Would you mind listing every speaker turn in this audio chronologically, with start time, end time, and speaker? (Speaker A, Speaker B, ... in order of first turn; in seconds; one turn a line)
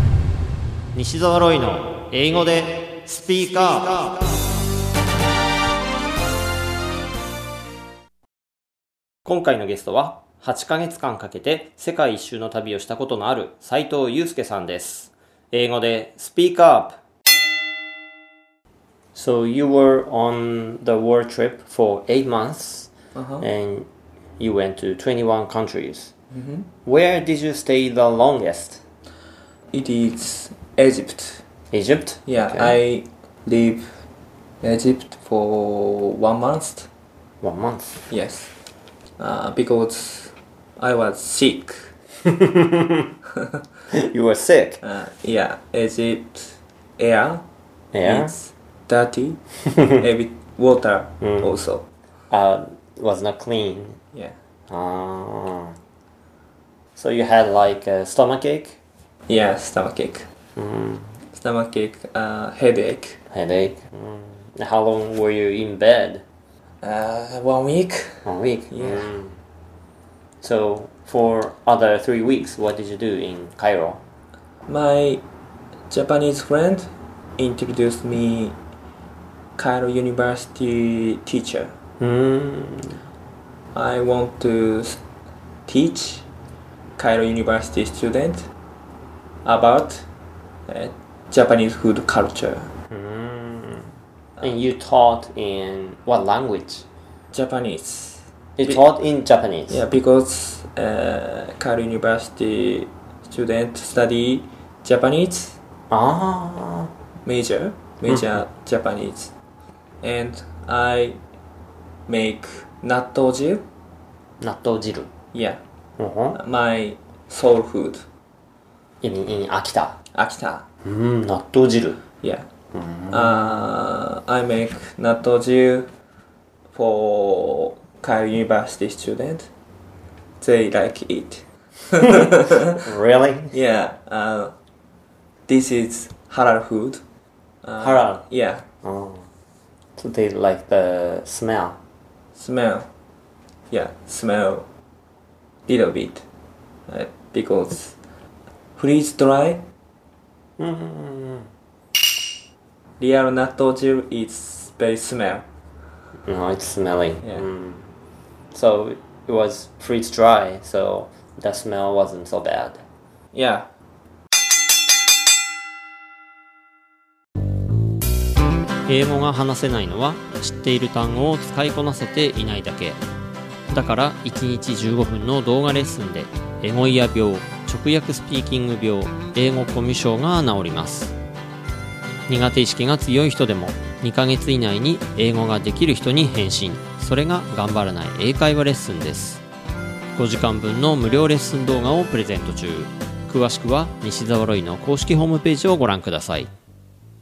Speaker A: 0.9-4.2
Speaker A: 9.2-17.0
Speaker A: 19.1-22.9
Speaker B: 23.1-23.4
Speaker A: 23.4-23.9
Speaker A: 24.4-26.1
Speaker B: 26.3-26.6
Speaker A: 26.8-28.8
Speaker B: 29.7-31.4
Speaker A: 31.7-32.7
Speaker B: 32.3-33.9
Speaker B: 34.6-36.9
Speaker A: 37.4-38.0
Speaker B: 38.1-38.5
Speaker B: 39.2-41.9
Speaker A: 42.2-43.0
Speaker A: 43.9-44.8
Speaker B: 44.8-47.4
Speaker A: 47.9-48.3
Speaker B: 48.0-49.4
Speaker B: 49.9-51.8
Speaker A: 51.2-51.5
Speaker A: 52.3-54.0
Speaker A: 54.7-55.8
Speaker A: 57.0-58.8
Speaker B: 59.3-60.3
Speaker A: 60.5-61.1
Speaker B: 61.3-63.2
Speaker A: 63.3-66.2
Speaker B: 66.8-69.1
Speaker A: 68.2-69.3
Speaker A: 70.4-74.0
Speaker B: 74.7-75.2
Speaker B: 75.9-78.5
Speaker B: 79.6-81.7
Speaker A: 82.0-83.0
Speaker B: 83.7-85.0
Speaker B: 85.7-86.2
Speaker B: 87.0-88.5
Speaker B: 89.4-90.0
Speaker B: 90.7-92.7
Speaker A: 92.9-96.8
Speaker B: 97.3-98.8
Speaker A: 98.6-99.8
Speaker B: 99.7-105.6
Speaker A: 105.9-106.9
Speaker B: 107.2-109.3
Speaker B: 110.0-111.2
Speaker B: 112.1-113.6
Speaker A: 114.4-115.1
Speaker B: 115.3-115.6
Speaker A: 116.0-116.4
Speaker B: 116.3-118.0
Speaker A: 119.0-120.0
Speaker B: 120.1-120.7
Speaker A: 120.8-122.0
Speaker A: 122.7-123.6
Speaker B: 123.1-125.9
Speaker B: 126.7-129.5
Speaker B: 130.4-132.8
Speaker A: 132.8-133.5
Speaker B: 133.5-134.5
Speaker B: 135.5-137.0
Speaker B: 137.6-138.6
Speaker A: 137.8-138.2
Speaker A: 138.8-139.3
Speaker A: 140.0-141.8
Speaker B: 142.3-142.9
Speaker B: 143.7-144.7
Speaker B: 145.7-146.2
Speaker B: 146.9-147.9
Speaker B: 148.8-149.6
Speaker A: 150.6-151.5
Speaker B: 153.0-155.4
Speaker A: 156.3-157.9
Speaker A: 158.5-162.8
Speaker B: 163.3-163.7
Speaker A: 168.8-173.0
Speaker A: 173.7-181.1
Speaker A: 182.3-189.4
Speaker A: 190.1-196.5